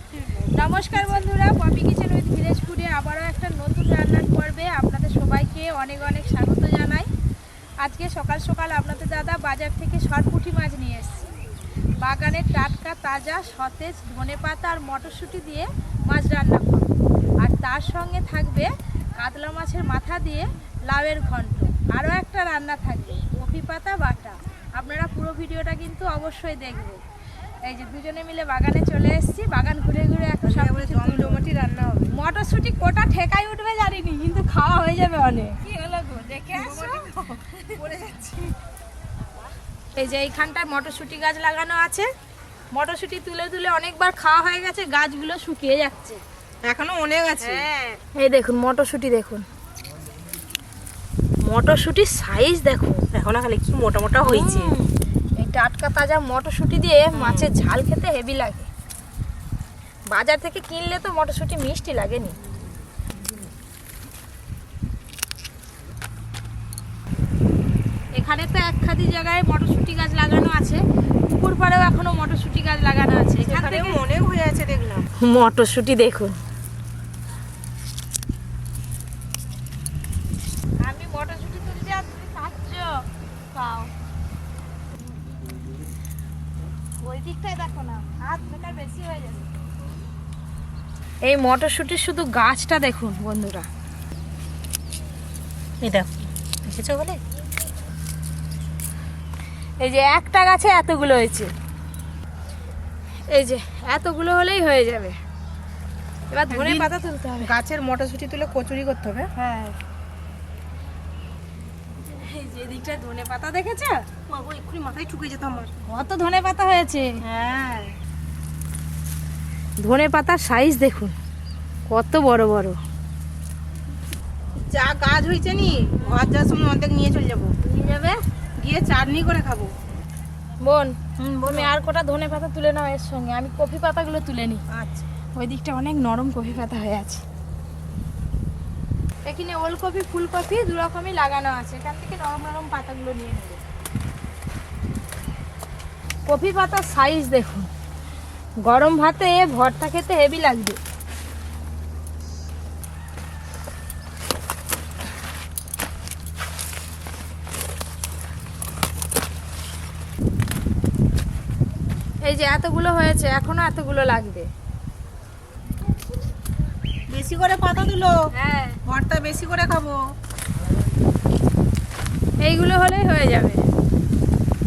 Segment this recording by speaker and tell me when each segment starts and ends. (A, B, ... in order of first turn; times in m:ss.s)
0:00.1-0:01.2 A
0:00.5-0:07.1 B
0:07.8-0:11.3 B
0:12.0-0:27.0 B
0:27.6-0:31.4 B
0:30.4-0:32.1 A
0:32.1-0:37.8 B
0:36.5-0:38.5 A
0:40.0-0:42.1 B
0:42.7-0:46.2 B
0:46.6-0:47.7 A
0:47.4-0:49.4 B
0:51.4-0:53.0 B
0:53.1-0:54.7 A
0:54.2-0:58.7 B
0:57.1-0:57.5 A
1:00.1-1:02.4 B
1:08.1-1:14.0 B
1:13.4-1:15.0 A
1:15.2-1:16.4 B
1:20.8-1:23.0 B
1:23.5-1:23.9 B
1:27.0-1:29.5 B
1:31.2-1:33.7 B
1:35.8-1:36.1 A
1:36.6-1:37.2 A
1:39.8-1:41.5 B
1:43.3-1:45.2 B
1:46.3-1:47.5 B
1:46.5-1:46.9 A
1:47.4-1:49.3 A
1:49.4-1:49.8 B
1:52.1-1:54.0 B
1:54.3-1:55.7 A
1:55.9-1:57.2 B
1:57.2-1:57.9 A
1:59.8-2:01.1 B
2:01.9-2:02.8 B
2:04.7-2:07.5 A
2:07.6-2:08.2 B
2:08.6-2:09.7 A
2:10.6-2:14.6 B
2:11.3-2:11.7 A
2:14.7-2:15.0 A
2:15.3-2:17.2 B
2:19.2-2:23.6 B
2:26.3-2:27.7 B
2:28.6-2:30.8 B
2:42.2-2:44.5 B
2:47.1-2:48.2 A
2:48.3-2:48.8 B
2:48.8-2:50.0 A
2:52.4-2:53.6 B